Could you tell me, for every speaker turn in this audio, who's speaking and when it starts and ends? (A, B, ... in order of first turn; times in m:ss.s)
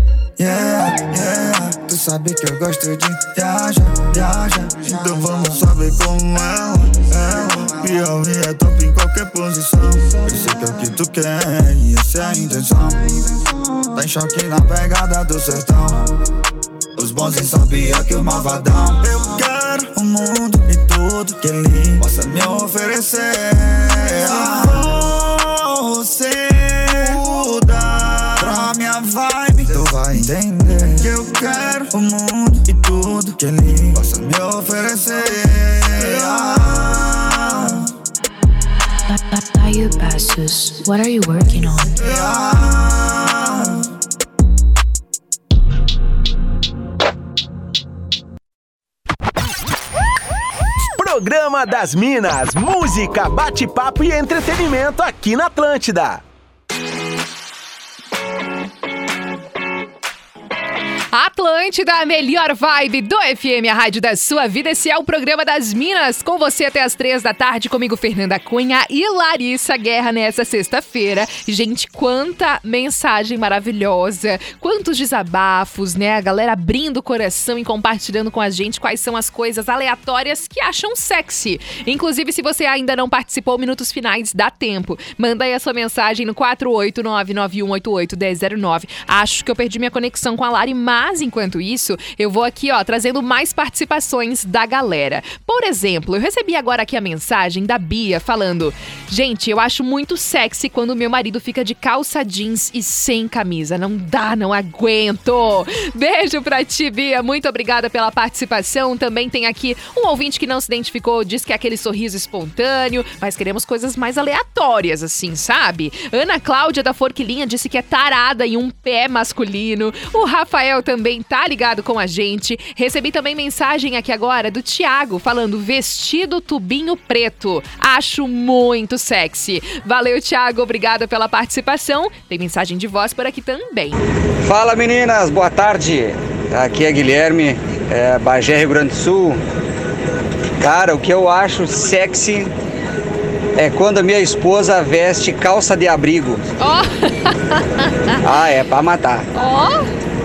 0:00.4-0:16.1 A
0:17.0-0:37.8 A
0:39.1-0:42.0 B
0:42.0-0:43.8 A
0:50.9-0:56.2 C
1:01.1-2:14.0 D
2:14.4-2:19.4 E
2:20.6-2:22.5 E
2:23.6-2:26.4 E
2:26.6-2:28.1 D
2:28.2-2:29.2 E
2:29.4-2:29.9 D